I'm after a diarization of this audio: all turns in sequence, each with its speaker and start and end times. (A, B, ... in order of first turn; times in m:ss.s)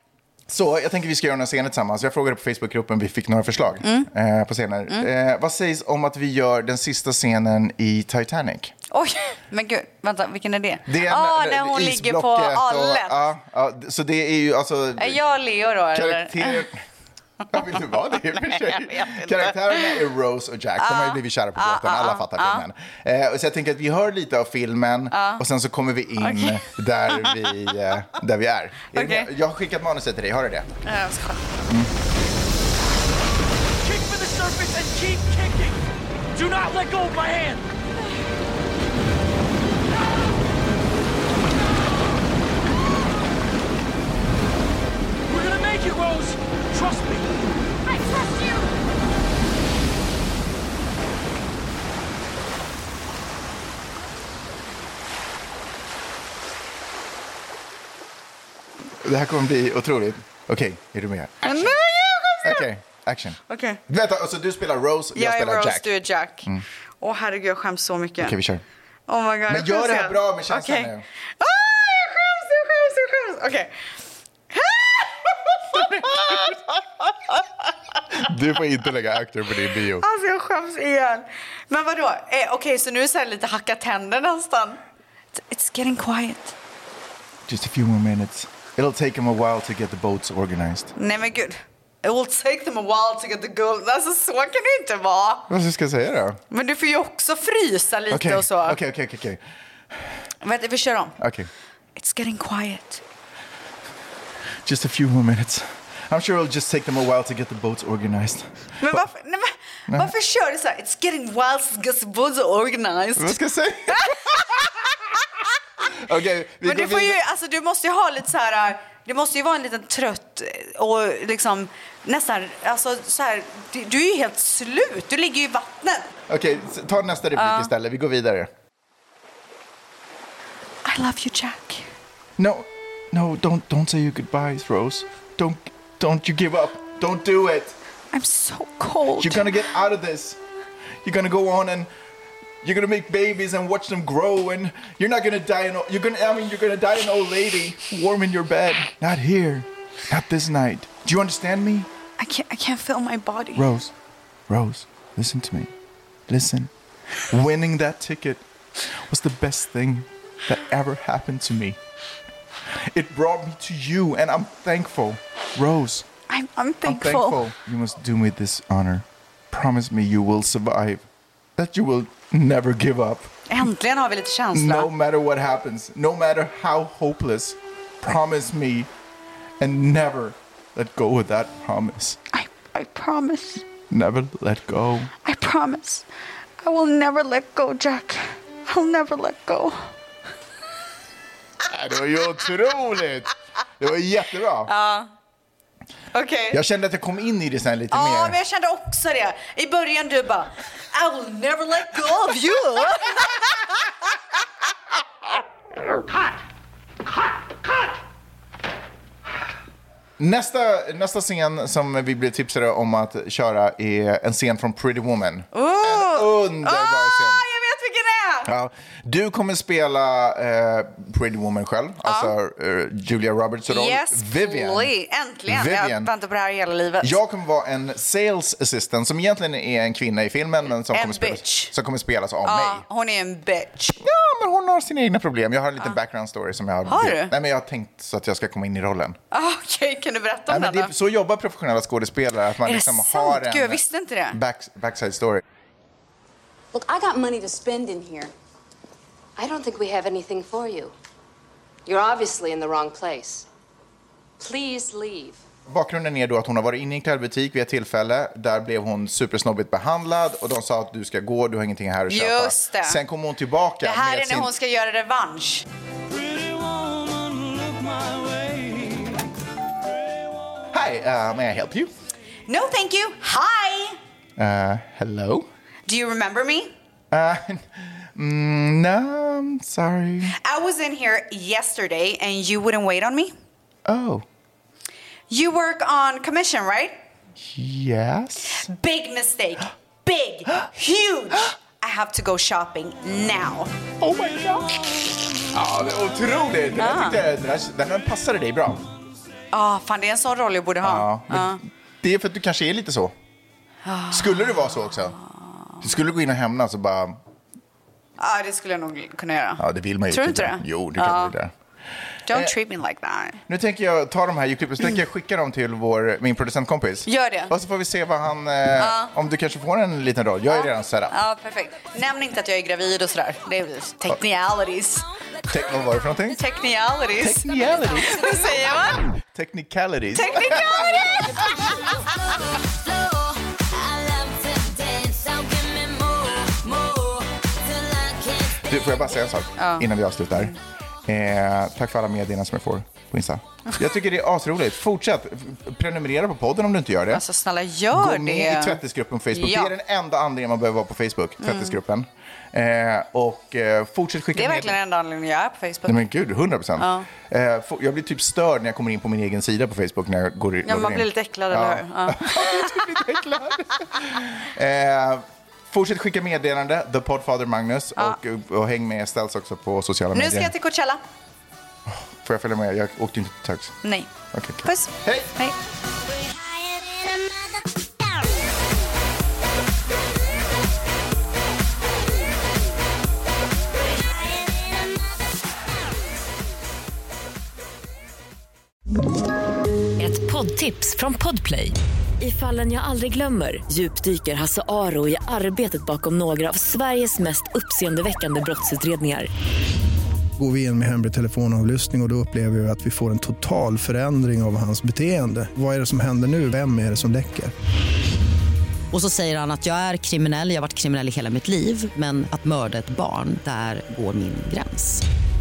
0:00.5-0:08.7 A
0:03.8-0:04.1 B
0:08.9-0:13.2 B
0:10.8-0:15.2 A
0:15.0-0:16.6 B
0:15.9-0:16.8 A
0:17.5-0:30.7 A
0:17.6-0:20.0 B
0:20.8-0:22.6 B
0:25.1-0:25.4 B
0:26.2-0:27.5 B
0:28.9-0:29.3 B
0:30.8-0:31.5 B
0:33.8-0:37.7 C
0:45.3-0:47.3 C
0:47.9-0:48.6 C
0:59.0-1:01.8 A
1:01.4-1:02.7 B
1:02.4-1:05.9 A
1:03.5-1:03.8 B
1:05.1-1:08.4 B
1:08.2-1:08.6 A
1:09.1-1:13.8 B
1:09.5-1:11.0 A
1:14.5-1:16.6 B
1:15.7-1:16.8 A
1:18.1-1:20.0 A
1:20.0-1:24.8 B
1:25.3-1:26.5 B
1:27.5-1:30.9 A
1:31.0-1:35.5 B
1:35.5-1:36.4 A
1:36.5-1:38.8 B
1:38.1-1:39.4 A
1:40.4-1:41.2 B
1:41.2-1:41.5 A
1:42.0-1:43.0 B
1:44.6-1:49.0 A
1:48.8-1:54.7 B
1:53.2-1:54.9 A
1:55.9-1:57.2 A
1:56.6-2:06.1 B
2:06.3-2:08.5 A
2:07.4-2:07.7 B
2:10.8-2:11.9 B
2:12.4-2:17.7 A
2:18.1-2:19.6 B
2:19.2-2:20.4 A
2:21.0-2:21.9 A
2:22.6-2:31.9 A
2:32.2-2:33.7 B
2:33.6-2:33.9 A
2:34.5-2:35.7 A
2:36.3-2:36.7 A
2:37.3-2:41.8 A
2:42.8-2:46.1 A
2:46.3-2:47.4 B
2:46.8-2:51.0 A
2:51.6-2:53.3 A
2:53.5-2:54.9 B
2:54.5-2:58.9 A
2:59.6-3:02.2 A
3:02.3-3:03.6 B
3:03.9-3:05.1 A
3:05.2-3:06.0 B
3:06.6-3:09.9 B
3:11.6-3:14.7 A
3:14.7-3:15.1 B
3:16.1-3:16.6 B
3:16.5-3:18.4 A
3:17.9-3:23.6 B
3:30.2-3:37.4 A
3:35.5-3:38.5 B
3:38.4-3:44.9 A
3:42.0-3:42.3 B
3:43.6-3:47.2 B
3:45.5-3:46.1 A
3:47.0-3:52.8 A
3:50.9-3:51.7 B
3:52.4-3:54.0 B
3:54.0-3:59.2 A
3:56.8-3:57.3 B
3:59.3-4:00.9 B
4:00.5-4:03.8 A
4:02.6-4:04.4 B
4:04.3-4:05.4 A
4:06.7-4:08.3 D
4:09.4-4:10.9 D
4:11.8-4:13.4 D
4:14.4-4:15.4 D
4:15.7-4:24.5 A
4:22.1-4:23.0 B
4:23.8-4:25.6 B
4:26.1-4:29.3 C
4:29.8-4:30.6 C
4:30.7-4:31.9 A
4:32.5-4:34.0 B
4:34.4-4:35.5 A
4:35.9-4:36.7 B
4:37.1-4:40.4 A
4:40.4-4:43.3 B
4:43.8-4:44.2 A
4:45.3-4:47.0 B
4:47.4-4:48.7 A
4:48.5-4:53.8 B
4:54.0-4:54.8 A
4:55.5-4:58.9 A
4:56.8-4:57.2 B
4:59.5-5:01.6 B
5:00.8-5:03.1 A
5:03.8-5:04.5 B
5:04.1-5:05.2 A
5:05.8-5:07.2 A
5:08.2-5:11.3 B
5:09.6-5:11.5 A
5:12.3-5:13.4 B
5:13.5-5:21.1 A
5:17.0-5:17.5 B
5:18.8-5:19.1 B
5:20.5-5:25.0 B
5:25.5-5:26.4 A
5:26.3-5:29.0 B
5:27.2-5:31.4 A
5:30.1-5:31.5 B
5:31.0-5:39.0 E
5:38.6-5:40.5 A
5:39.6-5:40.6 B
5:41.1-5:47.2 A
5:47.1-5:48.8 B
5:47.9-5:54.8 A
5:49.3-5:49.7 B
5:51.4-5:51.8 B
5:54.3-5:56.0 B
5:55.8-6:10.5 A
5:56.8-5:57.1 B
6:00.6-6:02.8 B
6:10.1-6:11.0 B
6:11.8-6:13.8 A
6:13.8-6:14.1 B
6:14.3-6:15.3 A
6:14.6-6:15.6 B
6:16.1-6:17.3 E
6:24.0-6:25.0 E
6:30.0-6:39.3 F
6:40.4-6:47.5 G
6:48.9-6:55.0 E